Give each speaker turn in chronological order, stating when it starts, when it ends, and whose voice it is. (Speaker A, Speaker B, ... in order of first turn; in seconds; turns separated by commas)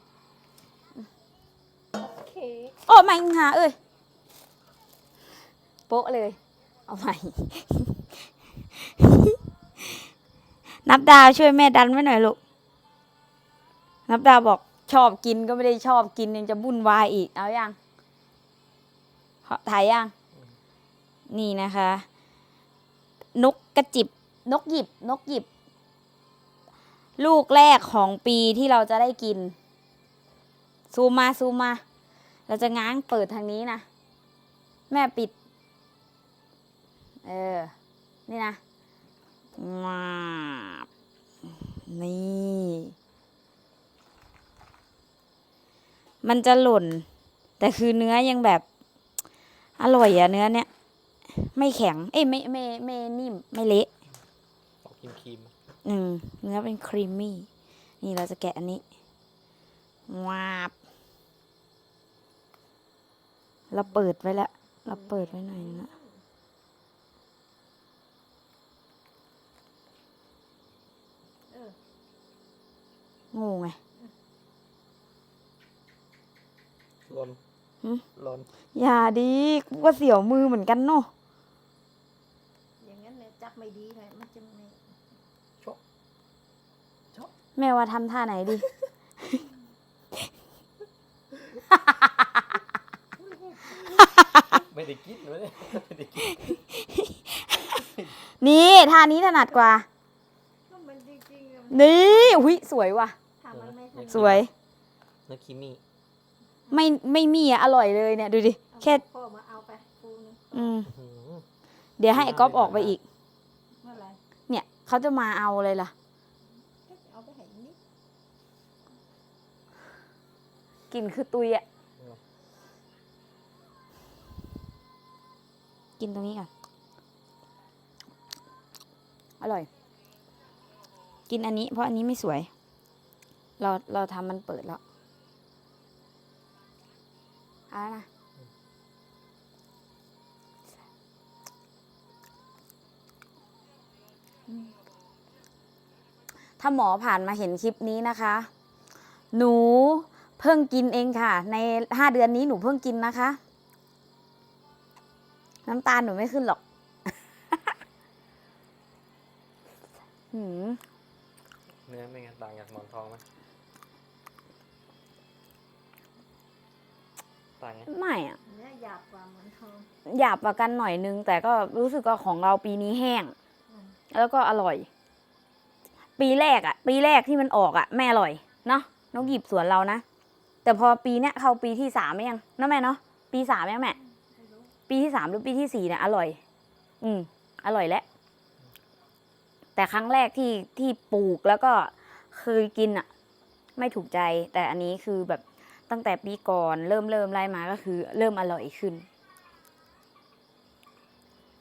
Speaker A: 1.9-2.9, Speaker B: 2.9-3.8, Speaker B: 5.9-10.1, Speaker B: 10.7-12.4, Speaker B: 14.1-17.8, Speaker B: 19.5-20.1, Speaker B: 21.3-22.1, Speaker B: 23.4-25.5, Speaker B: 27.2-29.6, Speaker B: 30.9-31.8, Speaker B: 32.5-33.9, Speaker B: 34.9-35.3, Speaker B: 37.2-37.7, Speaker B: 38.3-38.6, Speaker B: 39.6-40.9, Speaker B: 41.4-43.0, Speaker B: 46.2-47.1, Speaker B: 47.6-48.6, Speaker B: 49.8-50.7, Speaker B: 51.3-53.9, Speaker C: 54.8-55.5, Speaker B: 55.8-57.5, Speaker B: 58.0-58.8, Speaker B: 60.1-60.7, Speaker B: 63.7-65.9, Speaker A: 64.8-66.2, Speaker A: 71.5-71.8, Speaker B: 73.3-73.8, Speaker C: 77.0-77.4, Speaker C: 78.1-78.5, Speaker B: 78.7-81.1, Speaker A: 82.8-84.9, Speaker B: 87.6-88.7, Speaker B: 91.7-92.1, Speaker C: 93.7-96.6, Speaker B: 96.8-97.8, Speaker C: 97.8-98.1, Speaker B: 98.4-99.9, Speaker A: 100.7-102.6, Speaker B: 101.7-103.2, Speaker A: 103.4-104.4, Speaker C: 103.5-104.5, Speaker B: 104.1-104.5, Speaker C: 105.3-105.8, Speaker B: 106.7-109.0, Speaker A: 108.7-110.8, Speaker B: 110.5-110.9, Speaker C: 110.9-111.5, Speaker B: 112.0-113.0, Speaker C: 112.1-113.0, Speaker A: 113.8-114.2, Speaker B: 114.5-115.9, Speaker A: 116.7-117.8, Speaker B: 120.9-121.6, Speaker B: 126.0-126.5, Speaker B: 129.4-129.7, Speaker B: 131.3-132.5, Speaker B: 133.6-134.8, Speaker B: 137.7-138.1, Speaker B: 146.6-148.5, Speaker B: 149.3-153.4, Speaker B: 155.7-156.6, Speaker B: 160.3-160.8, Speaker C: 161.9-163.2, Speaker C: 167.6-167.9, Speaker B: 167.9-168.4, Speaker A: 168.4-169.9, Speaker B: 170.1-173.3, Speaker A: 173.7-174.0, Speaker B: 174.1-174.9, Speaker B: 176.2-180.0, Speaker B: 180.7-184.0, Speaker A: 184.0-184.7, Speaker B: 184.9-186.4, Speaker B: 187.0-188.1, Speaker B: 189.8-193.1, Speaker B: 193.8-199.1